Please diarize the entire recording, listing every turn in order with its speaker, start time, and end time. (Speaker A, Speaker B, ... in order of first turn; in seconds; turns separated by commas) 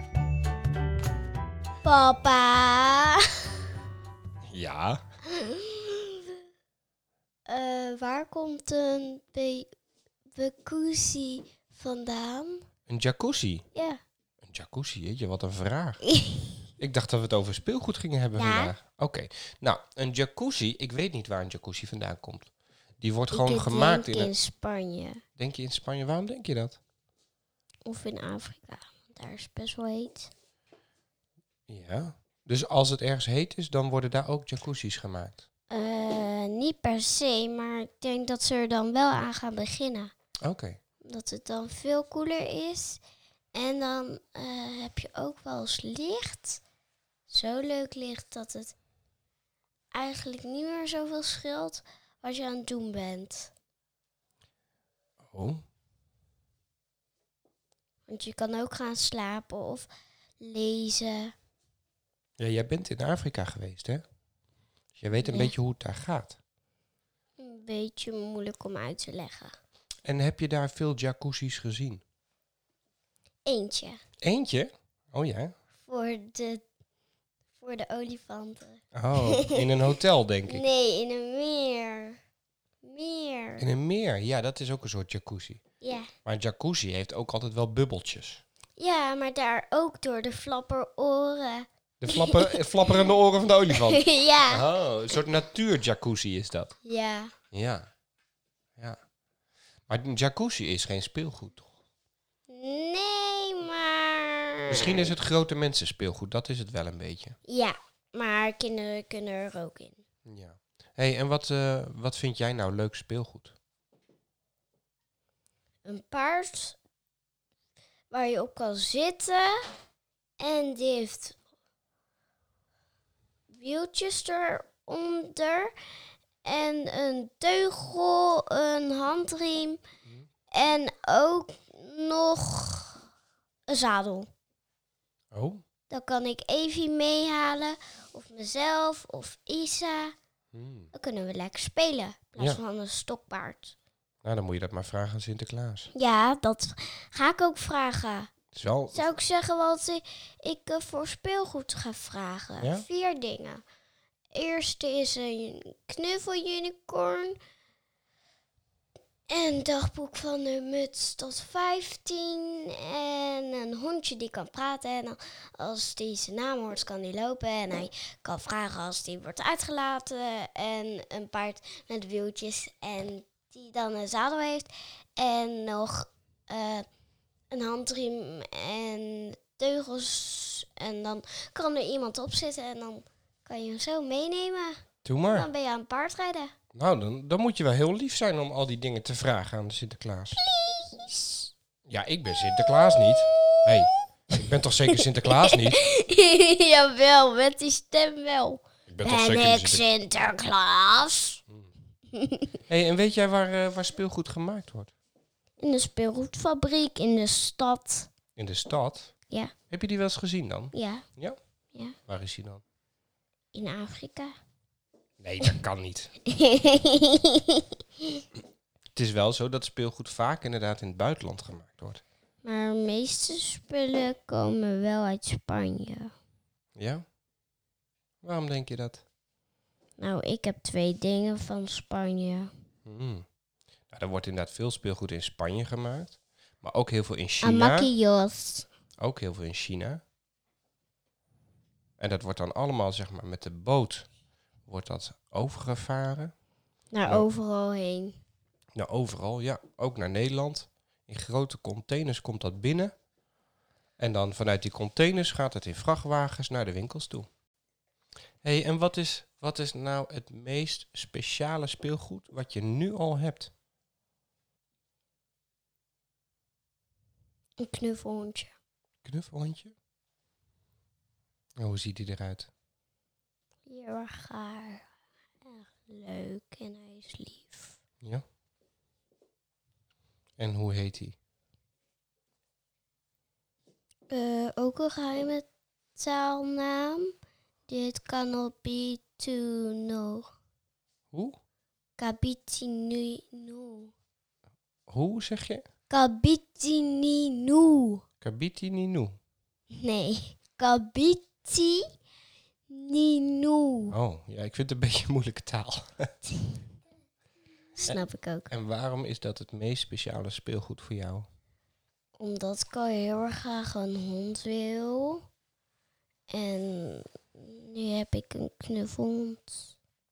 Speaker A: 1.8-3.2, Speaker B: 4.5-5.0, Speaker A: 5.3-6.4, Speaker A: 7.5-9.7, Speaker A: 10.3-12.6, Speaker B: 12.9-13.6, Speaker A: 13.7-14.0, Speaker B: 14.4-16.0, Speaker A: 16.1-16.5, Speaker B: 16.8-24.3, Speaker A: 18.3-18.7, Speaker A: 23.3-25.2, Speaker B: 25.4-26.8, Speaker A: 27.9-30.3, Speaker B: 31.7-35.4, Speaker A: 35.7-40.1, Speaker B: 40.4-40.8, Speaker A: 41.0-43.0, Speaker A: 43.5-46.6, Speaker A: 47.3-48.7, Speaker A: 49.9-53.5, Speaker B: 55.2-55.6, Speaker A: 58.1-59.9, Speaker A: 60.4-61.3, Speaker B: 62.4-64.0, Speaker B: 65.0-66.4, Speaker A: 65.2-65.5, Speaker A: 67.4-69.5, Speaker B: 70.0-72.0, Speaker A: 73.5-74.0, Speaker B: 74.2-75.5, Speaker A: 75.8-76.6, Speaker A: 77.6-79.6, Speaker B: 78.9-80.6, Speaker A: 80.5-82.2, Speaker A: 82.8-83.7, Speaker B: 83.6-85.6, Speaker A: 85.8-86.1, Speaker B: 86.2-88.4, Speaker A: 88.8-92.6, Speaker B: 92.0-96.7, Speaker A: 93.7-94.6, Speaker A: 96.8-97.3, Speaker B: 97.5-97.9, Speaker B: 99.9-101.7, Speaker A: 102.5-105.1, Speaker B: 104.7-107.4, Speaker A: 107.5-110.0, Speaker B: 110.2-113.5, Speaker A: 115.8-116.8, Speaker A: 118.1-119.6, Speaker A: 120.4-121.4, Speaker A: 123.5-125.7, Speaker A: 126.4-129.8, Speaker A: 130.5-133.0, Speaker A: 133.7-134.3, Speaker B: 135.3-135.6, Speaker A: 135.9-140.1, Speaker B: 140.5-140.9, Speaker A: 140.9-143.7, Speaker B: 144.2-145.9, Speaker A: 145.9-148.3, Speaker B: 148.5-149.1, Speaker A: 148.9-153.6, Speaker B: 152.6-152.8, Speaker A: 154.3-157.3, Speaker A: 159.3-176.8, Speaker A: 177.5-186.5, Speaker B: 185.0-185.5, Speaker B: 186.7-190.4, Speaker A: 190.4-191.5, Speaker B: 191.9-195.8, Speaker A: 192.4-194.0, Speaker A: 194.9-201.4, Speaker B: 198.9-199.8, Speaker A: 202.1-202.5, Speaker B: 202.7-204.9, Speaker A: 205.6-208.1, Speaker B: 208.3-209.1, Speaker B: 209.7-211.4, Speaker A: 210.7-211.0, Speaker B: 212.1-212.6, Speaker A: 213.5-214.3, Speaker B: 215.2-216.1, Speaker A: 216.3-218.2, Speaker B: 218.9-222.0, Speaker A: 222.4-226.1, Speaker B: 226.8-227.0, Speaker B: 228.2-229.0, Speaker A: 230.0-232.5, Speaker B: 232.8-233.2, Speaker B: 233.9-237.9, Speaker A: 237.4-238.7, Speaker B: 239.0-240.0, Speaker B: 242.0-244.1, Speaker B: 244.7-246.3, Speaker A: 246.9-248.2, Speaker B: 248.8-252.9, Speaker B: 254.0-257.3, Speaker B: 258.4-263.5, Speaker A: 267.6-268.5, Speaker B: 269.0-269.7, Speaker B: 271.6-272.5, Speaker A: 273.7-274.9, Speaker A: 275.4-277.8, Speaker B: 280.4-281.1, Speaker A: 284.1-287.1, Speaker A: 287.7-290.3, Speaker B: 291.1-291.4, Speaker A: 292.0-293.9, Speaker B: 294.9-295.6, Speaker A: 295.9-298.0, Speaker B: 298.2-299.1, Speaker A: 299.7-301.9, Speaker A: 302.7-303.9, Speaker B: 303.9-306.1, Speaker A: 307.8-308.5, Speaker B: 308.5-311.3, Speaker A: 312.1-315.2, Speaker A: 316.3-319.7